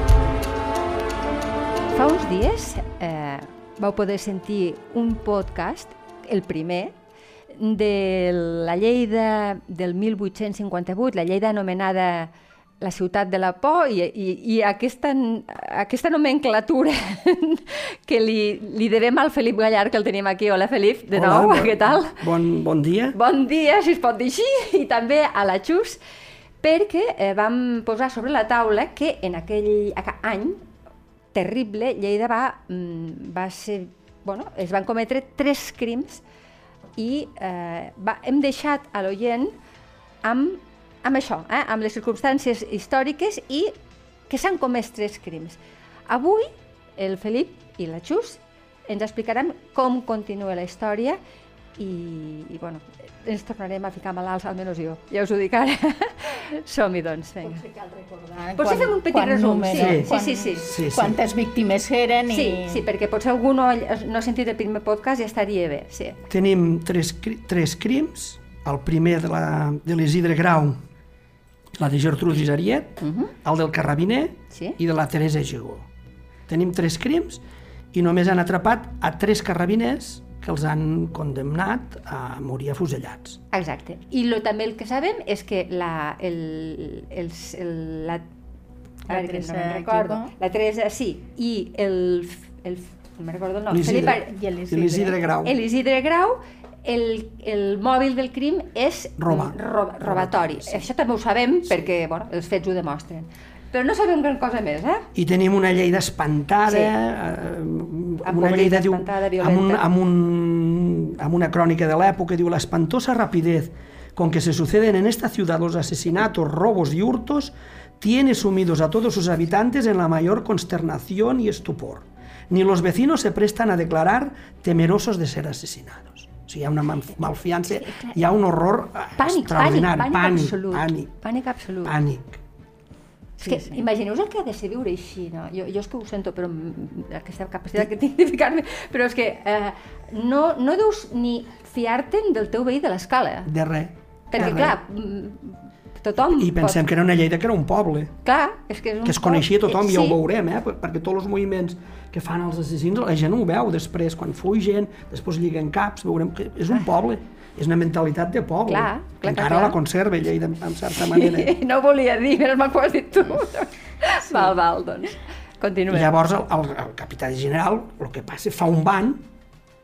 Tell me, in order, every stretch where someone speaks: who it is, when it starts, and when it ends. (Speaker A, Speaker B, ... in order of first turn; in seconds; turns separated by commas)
Speaker A: 1.9-6.9, Speaker A: 7.5-22.2, Speaker B: 21.1-23.2, Speaker A: 23.1-26.0, Speaker A: 26.6-30.6, Speaker A: 31.3-36.2, Speaker A: 37.0-39.5, Speaker A: 40.2-43.8, Speaker A: 44.3-51.2, Speaker A: 51.8-57.6, Speaker C: 57.4-62.8, Speaker A: 58.6-60.6, Speaker B: 59.7-60.1, Speaker B: 60.6-61.2, Speaker A: 62.3-66.2, Speaker B: 66.3-70.8, Speaker B: 71.8-75.9, Speaker A: 73.0-73.3, Speaker A: 74.5-74.8, Speaker B: 76.5-77.4, Speaker B: 77.9-83.4, Speaker A: 83.5-88.2, Speaker C: 89.1-90.3, Speaker A: 89.1-94.3, Speaker B: 93.7-95.5, Speaker C: 94.2-95.2, Speaker A: 95.4-105.1, Speaker B: 99.2-100.9, Speaker B: 105.1-131.1, Speaker A: 106.7-106.9, Speaker A: 108.2-109.8, Speaker A: 129.2-132.0, Speaker B: 131.8-132.4, Speaker C: 133.4-133.8, Speaker A: 133.4-143.5, Speaker B: 143.4-144.8, Speaker A: 144.3-146.8, Speaker B: 146.2-148.1, Speaker A: 148.2-150.2, Speaker B: 149.0-161.6, Speaker A: 158.7-159.8, Speaker A: 160.9-166.1, Speaker B: 165.9-169.2